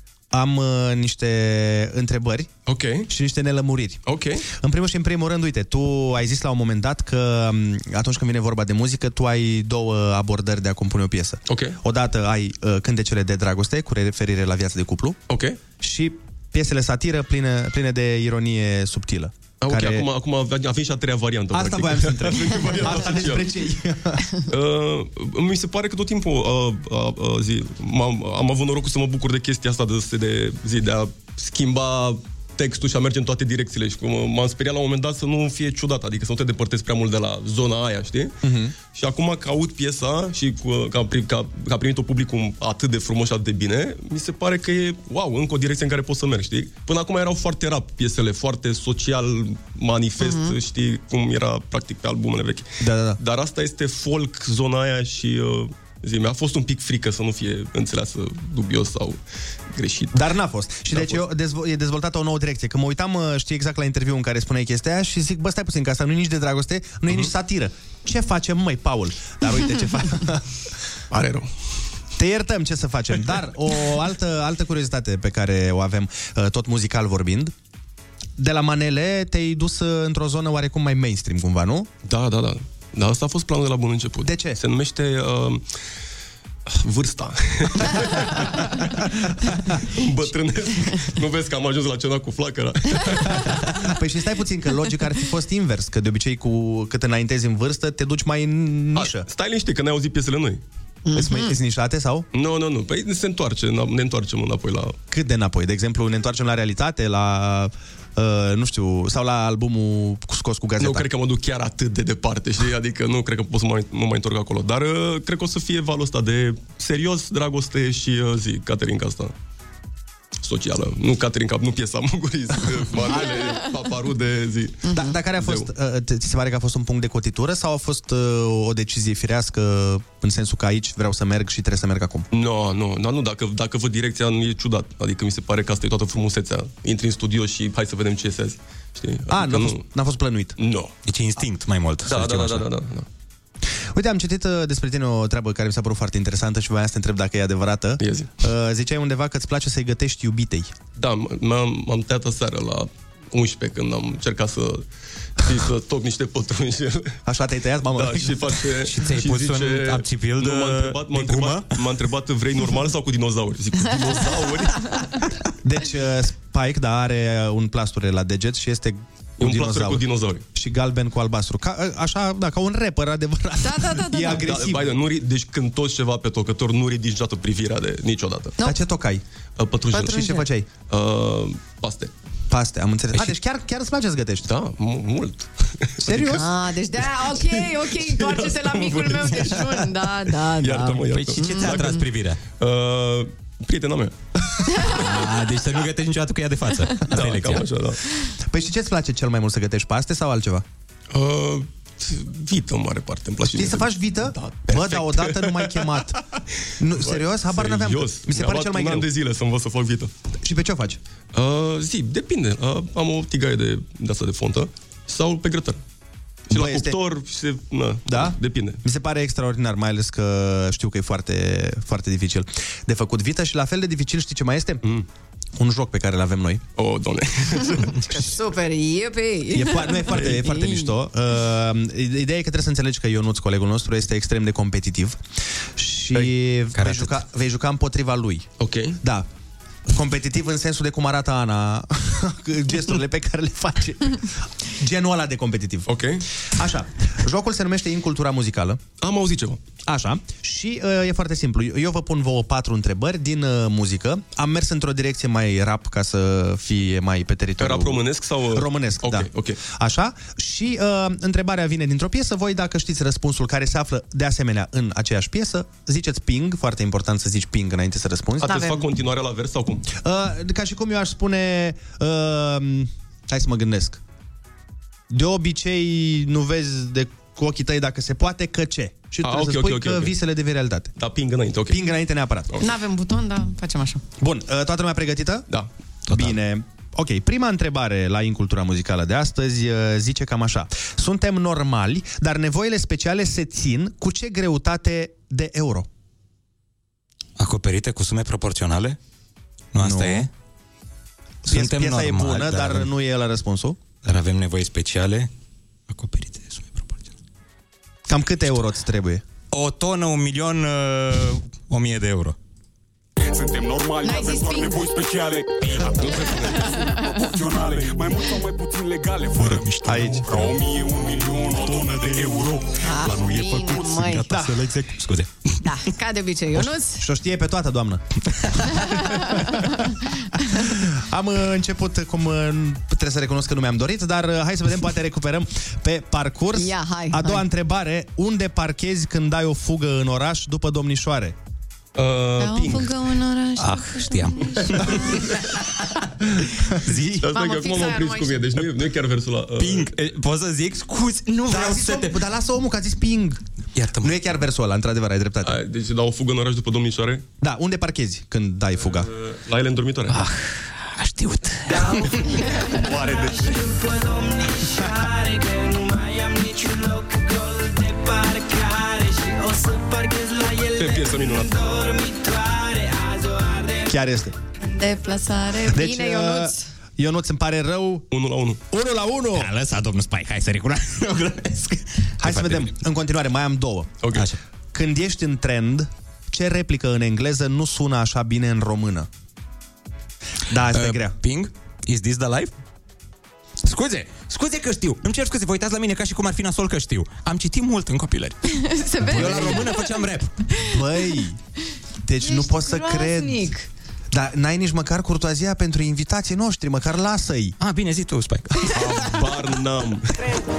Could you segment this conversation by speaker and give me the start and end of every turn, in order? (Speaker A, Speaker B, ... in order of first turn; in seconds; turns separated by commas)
Speaker A: 0.3-2.5, Speaker B: 2.7-3.1, Speaker A: 3.1-4.0, Speaker B: 4.1-4.5, Speaker A: 4.5-15.2, Speaker B: 11.5-11.8, Speaker B: 15.3-15.6, Speaker A: 15.8-20.1, Speaker B: 19.6-23.6, Speaker A: 21.5-24.3, Speaker B: 24.5-38.3, Speaker A: 38.4-38.8, Speaker B: 38.9-60.3, Speaker C: 50.2-50.6, Speaker A: 52.8-53.2, Speaker A: 60.1-70.5, Speaker B: 60.9-61.2, Speaker B: 71.1-71.5, Speaker A: 72.2-77.5, Speaker A: 78.4-81.9, Speaker B: 82.0-85.6, Speaker A: 84.2-84.6, Speaker B: 86.7-89.1, Speaker B: 89.8-93.8, Speaker A: 93.3-99.3, Speaker B: 99.0-100.6, Speaker C: 101.1-101.6, Speaker A: 101.2-102.3, Speaker B: 102.3-105.0, Speaker A: 105.1-111.1, Speaker B: 110.8-119.3, Speaker B: 120.4-125.7, Speaker C: 124.8-125.2, Speaker A: 124.9-132.3, Speaker B: 132.3-139.8, Speaker A: 139.3-140.5, Speaker B: 140.6-140.9, Speaker D: 141.1-142.7, Speaker B: 142.1-143.1, Speaker A: 143.9-150.7, Speaker B: 148.0-148.3, Speaker B: 151.0-154.9, Speaker B: 155.4-157.2, Speaker A: 157.3-158.4, Speaker B: 157.9-165.0, Speaker D: 158.9-161.9, Speaker A: 165.6-174.9, Speaker B: 169.4-170.4, Speaker C: 173.6-174.7, Speaker B: 174.4-178.6, Speaker A: 178.6-179.2, Speaker B: 179.6-182.1, Speaker C: 179.9-180.5, Speaker A: 180.1-180.7, Speaker A: 182.5-184.5, Speaker B: 184.5-186.4, Speaker A: 186.0-186.5, Speaker C: 186.4-192.0, Speaker B: 187.0-192.1, Speaker D: 191.1-192.4, Speaker B: 192.6-194.1, Speaker D: 194.9-197.7, Speaker B: 197.1-198.0, Speaker A: 198.5-200.7, Speaker B: 201.1-206.1, Speaker A: 203.4-206.2, Speaker A: 206.8-209.1, Speaker B: 206.9-210.1, Speaker A: 210.4-211.0, Speaker B: 211.3-215.8, Speaker B: 216.5-218.8, Speaker A: 216.5-217.0, Speaker A: 218.1-224.8, Speaker A: 225.6-226.6, Speaker B: 226.8-228.0, Speaker C: 228.1-230.9, Speaker A: 229.5-235.2, Speaker A: 235.8-238.5, Speaker D: 236.8-237.2, Speaker B: 238.6-239.0, Speaker A: 239.0-239.3, Speaker A: 239.9-245.9, Speaker B: 245.9-246.2, Speaker A: 246.5-248.8, Speaker B: 249.0-249.6, Speaker A: 249.9-268.9, Speaker B: 257.6-259.6, Speaker B: 268.4-269.9, Speaker A: 269.9-274.0, Speaker A: 275.1-280.9, Speaker B: 279.2-280.1, Speaker B: 281.0-281.8, Speaker A: 281.7-282.6, Speaker C: 282.6-284.0, Speaker A: 284.2-285.5, Speaker D: 286.1-286.4, Speaker A: 286.1-295.9, Speaker D: 297.4-299.0, Speaker D: 299.7-300.3, Speaker A: 299.8-300.3, Speaker D: 301.5-302.9, Speaker A: 301.5-303.8, Speaker D: 304.0-305.3, Speaker D: 305.9-307.1, Speaker A: 308.1-309.2, Speaker D: 309.5-312.4, Speaker E: 313.2-319.7, Speaker C: 314.0-314.9, Speaker C: 316.4-317.1, Speaker D: 319.4-320.6, Speaker A: 319.8-320.3, Speaker E: 320.3-324.0, Speaker C: 322.8-324.4, Speaker D: 323.0-325.3, Speaker A: 324.3-324.7, Speaker C: 325.6-327.1, Speaker A: 327.0-328.0, Speaker C: 328.8-330.5, Speaker A: 330.6-341.4, Speaker C: 336.6-337.5, Speaker B: 342.0-342.9, Speaker C: 342.4-345.4, Speaker D: 343.6-345.5, Speaker A: 346.8-347.2, Speaker D: 346.9-347.2, Speaker B: 347.2-349.9, Speaker C: 347.3-348.5, Speaker D: 349.6-352.1, Speaker A: 351.5-353.4, Speaker D: 353.8-354.1, Speaker A: 354.0-355.6, Speaker B: 355.4-357.2, Speaker A: 357.4-359.1, Speaker B: 358.8-360.2, Speaker D: 360.1-362.2, Speaker B: 361.7-363.7, Speaker B: 370.6-371.9, Speaker A: 373.9-374.4, Speaker C: 374.7-376.7, Speaker A: 375.7-378.1, Speaker B: 378.1-378.6, Speaker A: 378.7-379.5, Speaker D: 379.3-382.7, Speaker A: 382.2-383.9, Speaker B: 384.0-384.3, Speaker D: 384.1-384.4, Speaker A: 384.7-389.1, Speaker A: 390.5-391.2, Speaker D: 390.7-392.5, Speaker D: 393.6-398.4, Speaker C: 398.5-399.9, Speaker D: 399.0-400.3, Speaker A: 399.2-399.6, Speaker A: 400.6-401.4, Speaker A: 402.1-403.5, Speaker C: 402.2-403.7, Speaker A: 404.1-407.6, Speaker D: 407.6-409.1, Speaker B: 408.7-410.2